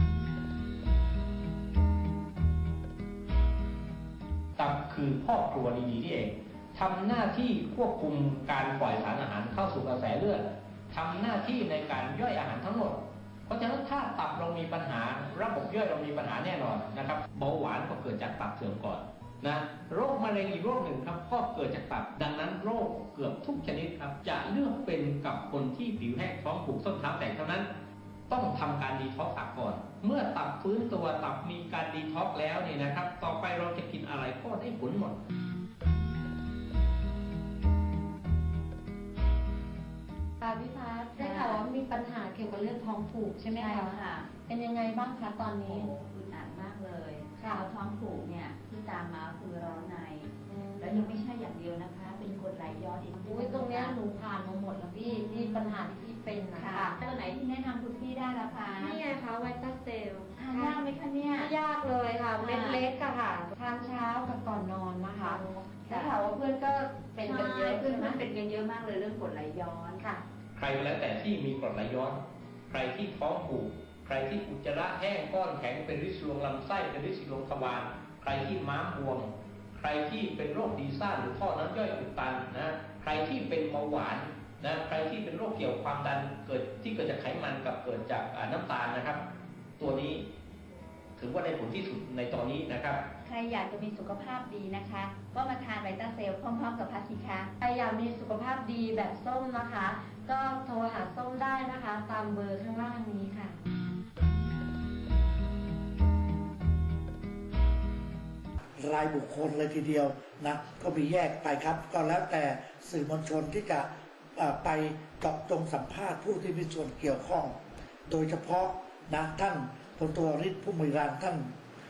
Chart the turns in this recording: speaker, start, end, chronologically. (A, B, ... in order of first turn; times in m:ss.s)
0:04.6-0:27.7 A
0:28.3-0:35.2 A
0:40.4-0:45.9 B
0:41.2-0:41.6 C
0:43.5-0:44.3 C
0:45.6-0:54.0 C
0:47.4-0:47.7 B
0:50.4-0:51.1 B
0:53.2-0:57.0 B
0:55.0-0:55.8 C
0:56.5-0:59.0 C
0:58.8-1:00.8 B
1:00.4-1:01.5 C
1:01.4-1:08.2 B
1:02.4-1:02.8 C
1:05.2-1:06.3 C
1:07.2-1:10.2 C
1:10.5-1:29.2 A
1:29.8-1:30.3 A
1:31.2-1:33.1 A
1:33.2-1:37.5 C
1:37.6-1:43.6 B
1:48.8-2:01.5 D